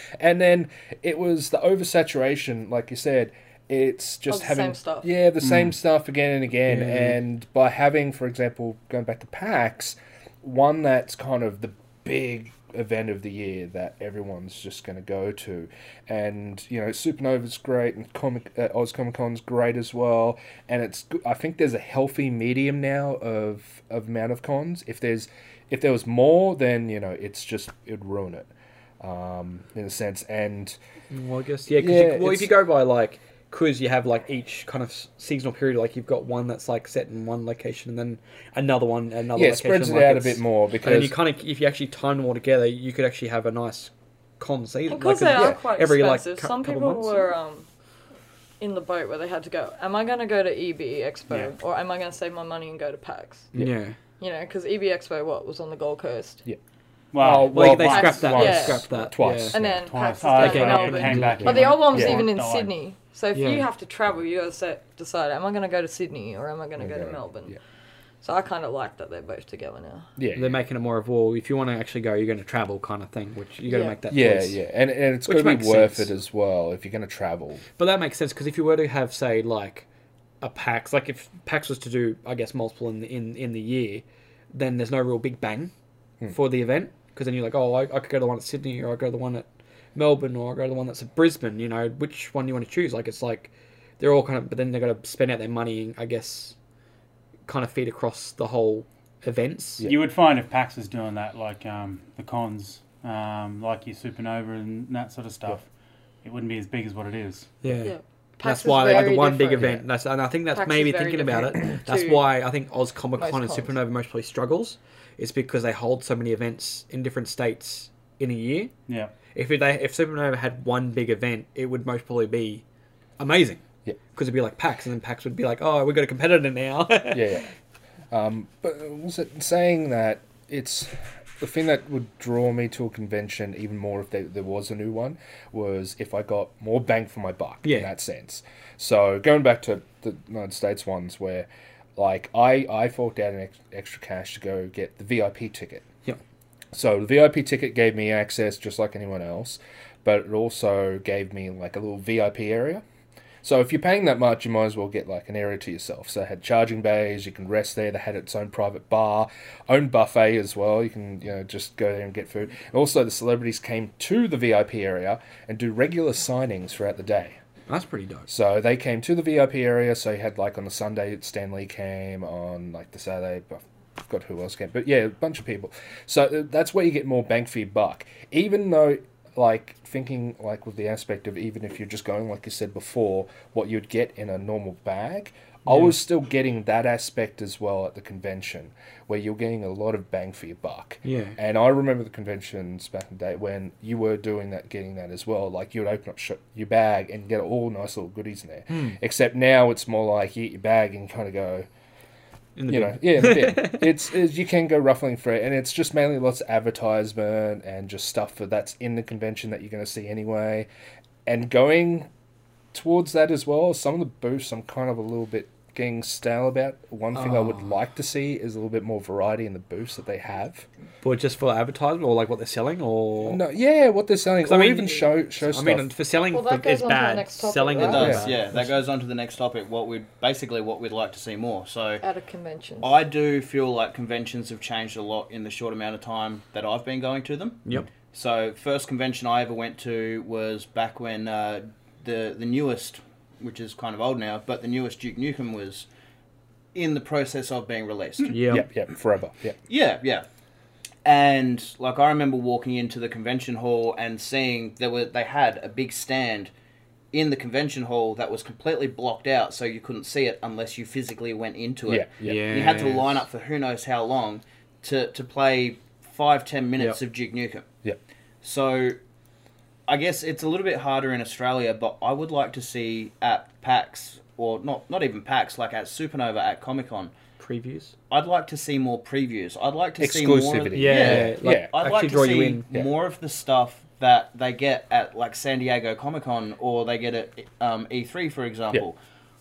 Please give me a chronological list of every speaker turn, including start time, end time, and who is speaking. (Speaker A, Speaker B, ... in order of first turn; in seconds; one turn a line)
Speaker A: 0.2-30.8
Speaker B: 4.3-5.1
Speaker C: 5.4-5.7
Speaker D: 6.7-7.1
Speaker D: 31.1-47.3
Speaker A: 31.8-32.5
Speaker A: 39.3-41.1
Speaker B: 44.9-47.7
Speaker A: 45.3-45.6
Speaker B: 48.6-53.5
Speaker D: 53.5-54.0
Speaker B: 54.2-56.4
Speaker C: 57.1-58.6
Speaker A: 57.1-59.9
Speaker D: 57.4-59.6
Speaker B: 57.9-58.8
Speaker B: 59.5-67.6
Speaker C: 59.9-62.7
Speaker D: 60.2-61.9
Speaker A: 61.4-62.2
Speaker D: 63.3-63.6
Speaker A: 66.8-67.5
Speaker B: 68.2-70.1
Speaker A: 70.2-70.6
Speaker D: 70.3-74.6
Speaker B: 73.7-74.0
Speaker A: 74.1-77.7
Speaker D: 75.2-76.1
Speaker D: 77.8-79.8
Speaker D: 80.4-85.7
Speaker D: 86.3-96.5
Speaker D: 97.5-99.9
Speaker C: 99.8-105.7
Speaker C: 106.2-107.5
Speaker D: 107.6-118.7
Speaker B: 107.8-109.8
Speaker B: 110.5-112.3
Speaker B: 113.2-113.7
Speaker C: 118.9-119.1
Speaker D: 119.3-122.6
Speaker D: 123.2-123.6
Speaker D: 124.1-127.4
Speaker A: 127.1-127.5
Speaker A: 128.1-145.8
Speaker D: 137.6-137.9
Speaker A: 146.7-152.8
Speaker A: 153.4-167.4
Speaker D: 167.7-168.3
Speaker A: 168.3-201.7
Speaker D: 185.7-185.9
Speaker D: 191.0-191.3
Speaker D: 198.7-199.0
Speaker D: 202.6-203.9
Speaker A: 202.7-210.7
Speaker A: 211.2-212.1
Speaker A: 212.7-220.7
Speaker D: 217.1-217.7
Speaker D: 221.0-223.4
Speaker A: 223.2-225.9
Speaker D: 224.4-228.7
Speaker B: 226.3-228.2
Speaker E: 227.8-232.0
Speaker A: 227.9-228.2
Speaker B: 232.0-232.9
Speaker E: 232.8-237.6
Speaker E: 238.1-245.8
Speaker E: 246.7-248.4
Speaker D: 248.3-248.7
Speaker A: 248.5-249.6
Speaker E: 249.7-250.2
Speaker E: 251.0-256.5
Speaker E: 257.1-267.6
Speaker A: 261.9-262.5
Speaker D: 262.2-263.2
Speaker E: 268.4-269.0
Speaker E: 269.9-277.1
Speaker D: 277.4-277.9
Speaker E: 278.1-288.9
Speaker A: 280.0-281.7
Speaker D: 280.7-282.6